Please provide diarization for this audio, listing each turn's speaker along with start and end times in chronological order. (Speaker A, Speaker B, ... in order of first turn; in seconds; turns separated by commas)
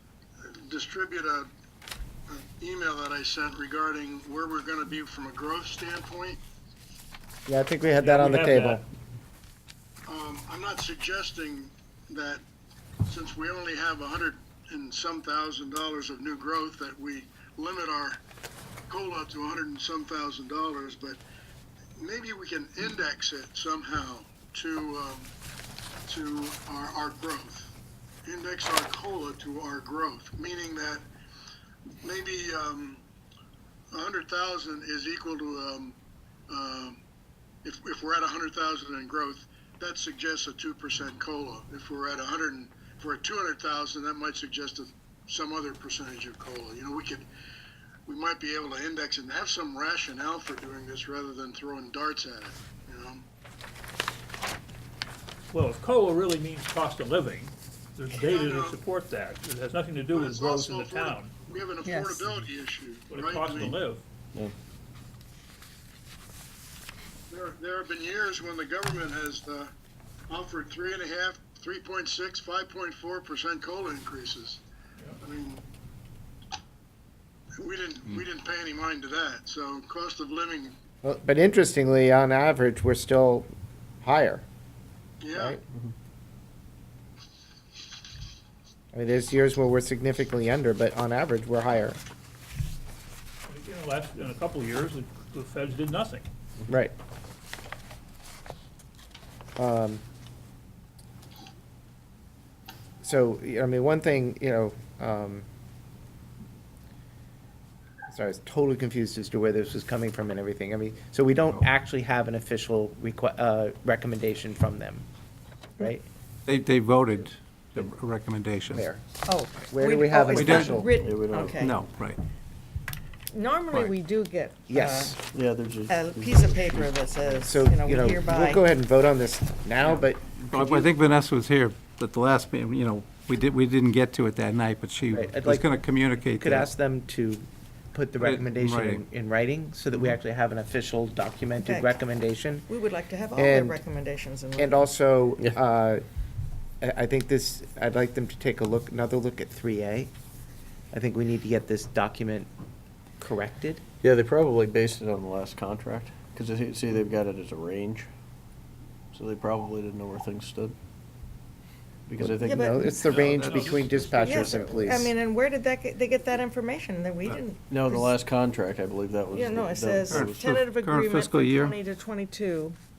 Speaker A: 0.4-1.5, Speaker A: 2.3-6.4, Speaker B: 7.5-8.8, Speaker C: 8.0-8.8, Speaker A: 10.1-12.4, Speaker A: 13.1-18.2, Speaker A: 18.9-21.2, Speaker A: 22.0-25.3, Speaker A: 26.1-27.7, Speaker A: 28.2-31.0, Speaker A: 32.0-33.0, Speaker A: 33.9-36.0, Speaker A: 36.5-37.0, Speaker A: 37.6-47.3, Speaker A: 48.0-53.2, Speaker C: 55.5-61.3, Speaker A: 58.3-58.8, Speaker A: 60.1-63.8, Speaker D: 61.8-62.2, Speaker C: 63.1-64.0, Speaker A: 67.3-69.7, Speaker A: 70.3-74.6, Speaker A: 75.2-75.6, Speaker A: 77.6-80.7, Speaker B: 81.0-83.5, Speaker B: 84.0-84.5, Speaker A: 85.2-85.6, Speaker B: 85.3-85.6, Speaker B: 88.9-92.0, Speaker C: 93.5-96.2, Speaker B: 96.7-96.9, Speaker B: 99.6-100.0, Speaker B: 103.0-105.5, Speaker B: 108.1-115.0, Speaker B: 115.8-116.0, Speaker E: 116.5-118.9, Speaker B: 118.7-120.9, Speaker D: 119.2-121.8, Speaker E: 120.3-120.8, Speaker F: 121.0-121.7, Speaker E: 121.5-122.2, Speaker D: 123.3-125.2, Speaker B: 124.7-125.2, Speaker F: 125.3-126.9, Speaker D: 125.8-128.7, Speaker B: 127.4-130.9, Speaker E: 130.5-136.7, Speaker B: 135.1-135.7, Speaker B: 136.4-142.7, Speaker E: 138.2-139.0, Speaker D: 141.6-142.0, Speaker D: 142.7-144.9, Speaker B: 143.4-143.8, Speaker B: 144.6-146.0, Speaker B: 146.8-150.1, Speaker B: 150.9-152.5, Speaker B: 153.2-153.8, Speaker F: 154.0-158.1, Speaker F: 159.1-160.7, Speaker F: 162.1-163.1, Speaker B: 162.2-165.1, Speaker D: 162.4-162.8, Speaker C: 162.9-164.7, Speaker D: 164.2-168.1, Speaker F: 164.2-164.8, Speaker F: 167.7-170.5, Speaker D: 169.3-172.8, Speaker E: 170.1-171.8